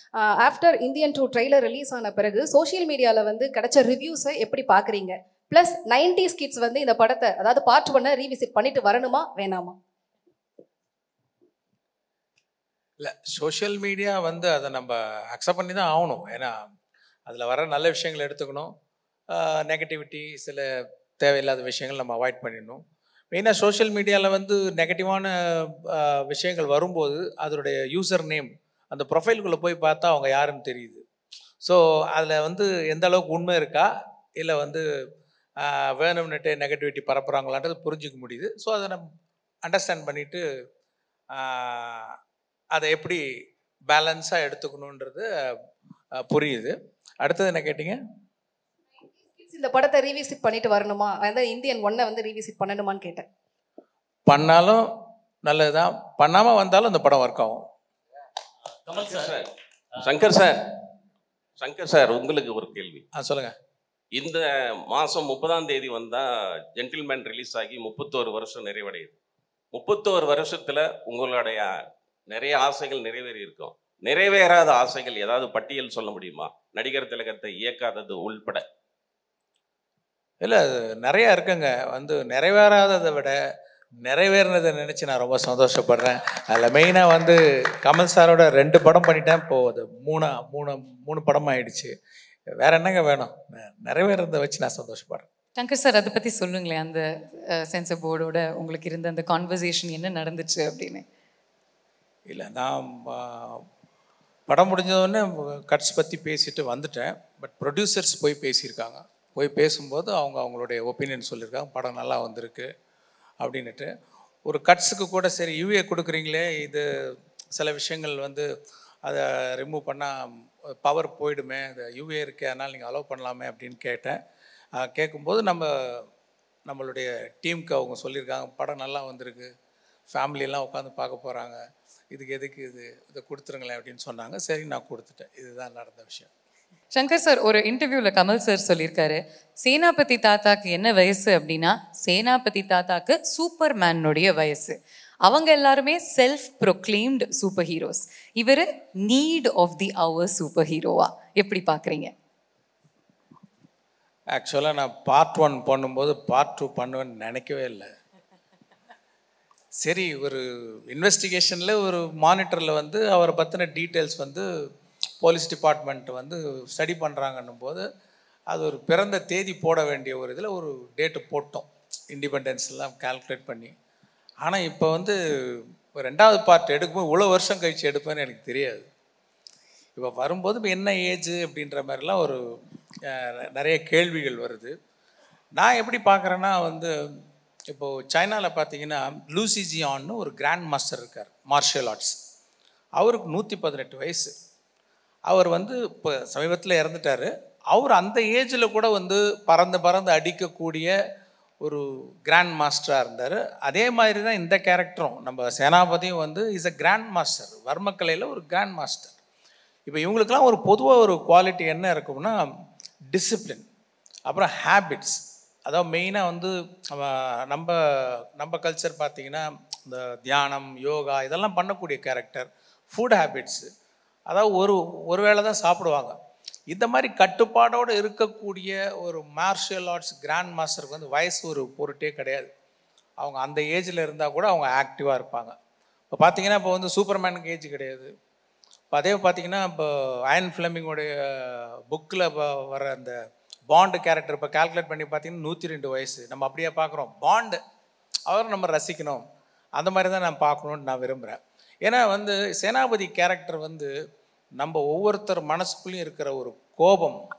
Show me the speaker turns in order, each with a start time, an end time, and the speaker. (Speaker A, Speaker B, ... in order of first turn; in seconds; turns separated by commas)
Speaker A: 0.1-9.7, Speaker B: 13.0-16.5, Speaker B: 17.3-18.7, Speaker B: 19.3-20.7, Speaker B: 21.2-31.0, Speaker B: 31.6-34.8, Speaker B: 35.6-39.0, Speaker B: 39.6-40.4, Speaker B: 41.3-42.1, Speaker B: 42.7-43.2, Speaker B: 43.9-45.5, Speaker B: 46.1-48.0, Speaker A: 49.0-53.2, Speaker B: 54.3-54.9, Speaker B: 55.4-57.6, Speaker C: 58.9-60.6, Speaker C: 61.6-63.0, Speaker B: 63.1-63.5, Speaker C: 64.1-69.2, Speaker C: 69.7-78.6, Speaker B: 80.4-83.4, Speaker B: 84.0-91.9, Speaker B: 92.6-95.3, Speaker D: 95.5-101.0, Speaker B: 102.3-103.6, Speaker B: 104.5-112.7, Speaker B: 113.4-113.9, Speaker B: 114.5-116.8, Speaker B: 117.5-118.5, Speaker B: 119.0-124.2, Speaker B: 124.8-126.1, Speaker B: 126.7-129.5, Speaker B: 130.1-131.6, Speaker B: 132.1-136.3, Speaker D: 136.9-152.1, Speaker B: 154.3-157.9, Speaker B: 159.8-164.4, Speaker B: 165.2-167.8, Speaker B: 168.5-173.7, Speaker B: 174.4-178.8, Speaker B: 179.9-182.4, Speaker B: 183.1-184.7, Speaker B: 185.6-186.9, Speaker B: 187.7-192.2, Speaker B: 193.0-194.3, Speaker B: 195.3-200.9, Speaker B: 201.6-209.2, Speaker B: 209.8-212.4, Speaker B: 213.1-213.6, Speaker B: 214.3-223.7, Speaker B: 224.3-226.1, Speaker B: 226.7-232.5, Speaker B: 233.2-235.5, Speaker B: 236.1-238.1, Speaker B: 238.9-243.2, Speaker B: 243.7-247.6, Speaker B: 248.3-249.2, Speaker B: 249.8-253.9, Speaker B: 254.6-257.2